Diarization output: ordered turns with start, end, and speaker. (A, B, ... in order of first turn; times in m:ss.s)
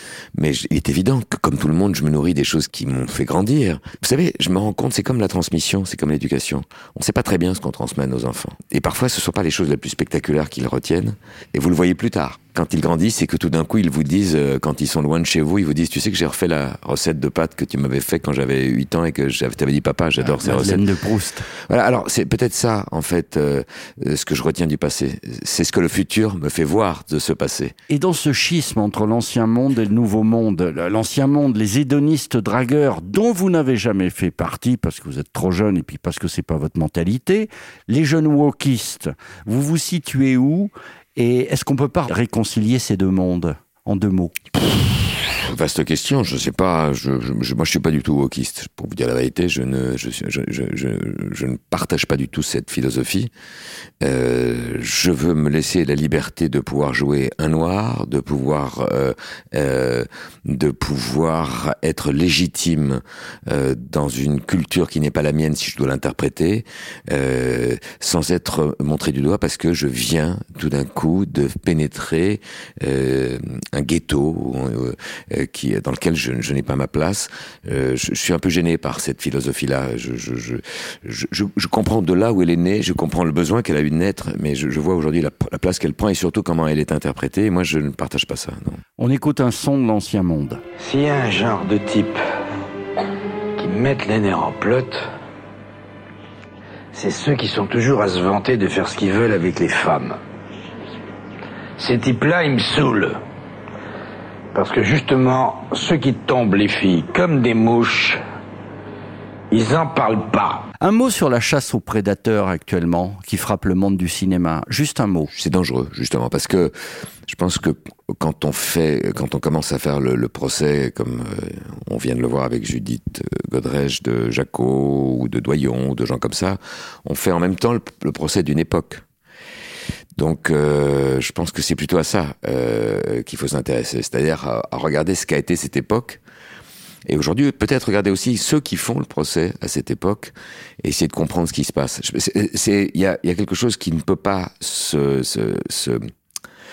0:00.4-0:20.8 A
0:20.2-0:21.5 B
0:21.7-0:27.7 A
0:27.9-0:44.4 B
0:45.3-0:53.3 A
0:54.0-1:28.8 A
1:29.0-1:30.6 B
1:30.8-1:32.2 C
1:33.6-1:35.0 C
1:36.9-1:40.2 C
1:41.8-1:43.2 C
1:44.5-1:48.2 C
1:49.5-1:50.6 C
1:50.8-1:55.3 B
1:55.3-1:56.7 A
1:57.3-2:09.0 A
2:10.2-2:16.2 A
2:17.1-2:26.0 A